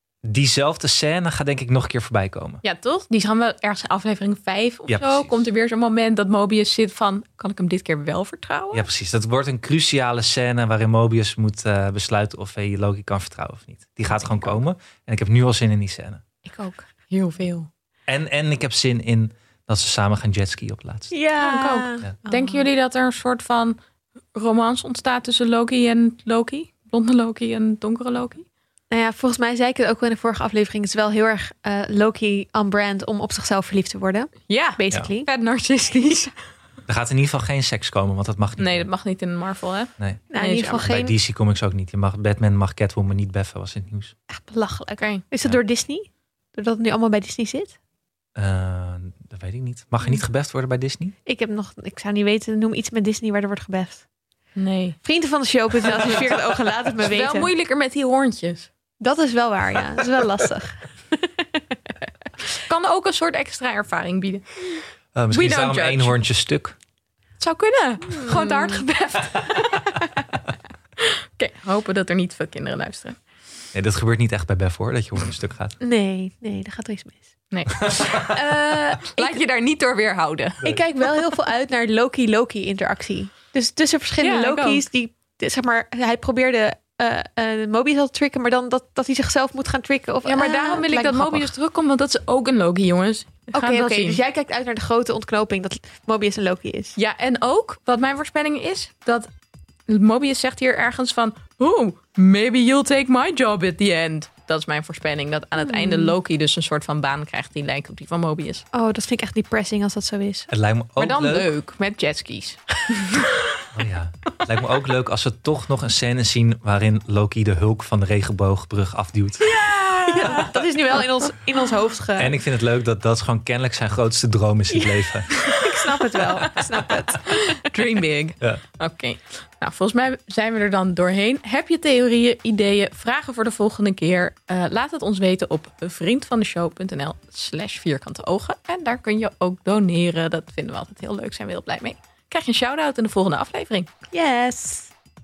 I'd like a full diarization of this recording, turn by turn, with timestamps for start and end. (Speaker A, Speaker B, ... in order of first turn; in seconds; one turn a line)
Speaker A: 0.2-2.6
Speaker B: 2.6-8.9
Speaker A: 4.9-5.3
Speaker A: 8.7-16.2
Speaker B: 16.4-17.7
Speaker A: 18.1-21.1
Speaker C: 21.1-22.6
Speaker B: 21.4-23.8
Speaker B: 24.3-28.4
Speaker C: 28.9-35.3
Speaker B: 34.5-36.3
Speaker A: 36.9-38.9
Speaker B: 38.6-40.9
Speaker A: 40.0-40.2
Speaker C: 40.3-41.1
Speaker A: 40.8-44.1
Speaker C: 44.3-47.7
Speaker B: 45.0-45.2
Speaker A: 48.4-51.1
Speaker C: 51.2-54.0
Speaker B: 54.5-55.0
Speaker C: 55.0-57.5
Speaker B: 57.0-58.7
Speaker C: 59.0-61.6
Speaker B: 62.6-64.8
Speaker A: 65.1-66.8
Speaker B: 65.3-66.2
Speaker B: 67.4-70.1
Speaker C: 68.1-68.8
Speaker B: 71.0-73.2
Speaker A: 73.7-75.8
Speaker C: 75.8-77.3
Speaker B: 77.5-80.6
Speaker A: 77.8-78.3
Speaker C: 78.0-79.4
Speaker C: 80.6-91.5
Speaker B: 84.2-84.8
Speaker B: 90.2-94.2
Speaker C: 93.5-97.0
Speaker B: 97.0-99.3
Speaker B: 99.9-108.6
Speaker C: 105.6-106.1
Speaker C: 108.7-110.5
Speaker A: 110.5-111.5
Speaker B: 111.0-113.7
Speaker A: 113.7-119.5
Speaker C: 119.4-122.4
Speaker B: 119.5-120.5
Speaker A: 122.2-125.3
Speaker C: 124.7-127.8
Speaker B: 125.3-126.5
Speaker B: 127.2-143.9
Speaker C: 144.1-144.9